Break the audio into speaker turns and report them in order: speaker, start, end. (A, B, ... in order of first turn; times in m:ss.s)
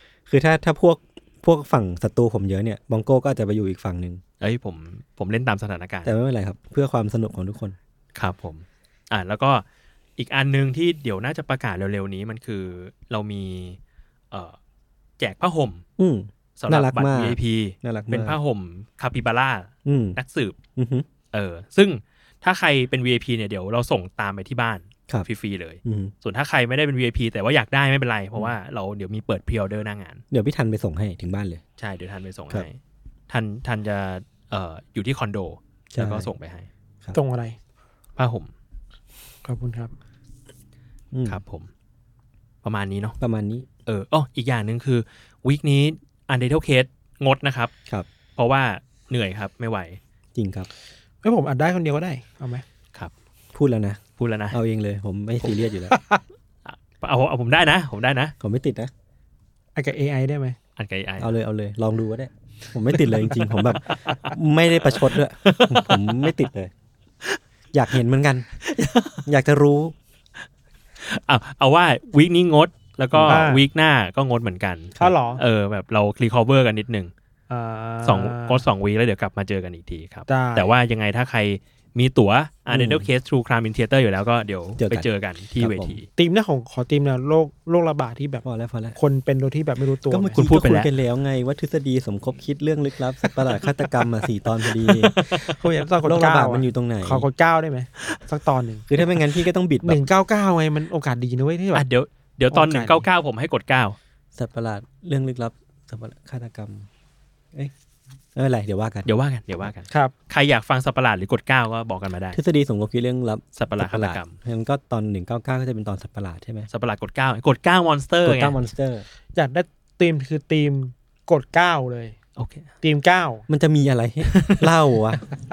0:00.3-0:04.2 A
0:04.4-0:06.1 B
0:06.0-0:07.8 A
0:08.2-0:09.6 B
0:10.2-0:13.8 B
0:14.3-0:14.6 B
0:15.2-0:15.8 B
0:16.0-0:18.4 A
0:16.6-0:20.6 B
0:19.8-0:20.2 A
0:20.8-0:21.0 A
0:21.3-0:30.2 B
0:25.8-0:26.1 A
0:30.3-0:31.6 A
0:31.8-0:32.8 B
0:33.3-0:36.7 B
0:36.0-0:36.3 A
0:37.1-0:37.6 C
0:38.2-0:38.5 B
0:39.4-0:39.9 C
0:41.1-0:41.4 A
0:41.2-0:41.7 B
0:42.6-0:43.2 B
0:43.2-0:43.7 A
0:43.8-0:47.7 B
0:48.4-0:50.0 B
0:50.3-0:50.7 A
0:51.2-0:52.6 C
0:53.5-0:54.0 A
0:54.2-0:54.6 B
0:54.5-0:55.9 A
0:55.9-0:56.2 C
0:56.6-0:58.3 B
0:58.4-0:58.9 A
0:59.8-1:00.6 C
1:00.8-1:01.3 B
1:01.2-1:06.7 A
1:03.7-1:04.1 B
1:04.9-1:06.4 B
1:07.7-1:08.5 A
1:08.6-1:09.2 B
1:09.3-1:09.9 A
1:11.0-1:17.1 B
1:13.1-1:13.4 A
1:13.3-1:13.6 C
1:15.0-1:15.4 C
1:17.5-1:18.6 C
1:18.0-1:26.1 B
1:20.3-1:20.7 C
1:22.7-1:23.1 A
1:24.8-1:25.1 A
1:25.6-1:26.0 A
1:26.2-1:28.4 C
1:28.4-1:29.0 A
1:29.0-1:30.4 C
1:30.1-1:35.2 A
1:30.3-1:30.9 B
1:33.2-1:34.1 B
1:34.8-1:35.5 B
1:35.4-1:38.9 C
1:36.0-1:37.3 A
1:38.9-1:40.0 A
1:39.8-1:41.8 C
1:41.7-1:44.0 B
1:42.5-1:43.0 C
1:44.3-1:46.9 A
1:48.3-1:49.1 A
1:49.0-1:52.4 B
1:52.3-1:56.7 A
1:53.6-1:54.4 B
1:56.7-1:58.6 B
1:58.2-1:59.0 A
1:59.3-2:02.2 C
2:02.4-2:02.7 B
2:02.8-2:03.4 C
2:03.5-2:05.2 A
2:04.2-2:05.2 B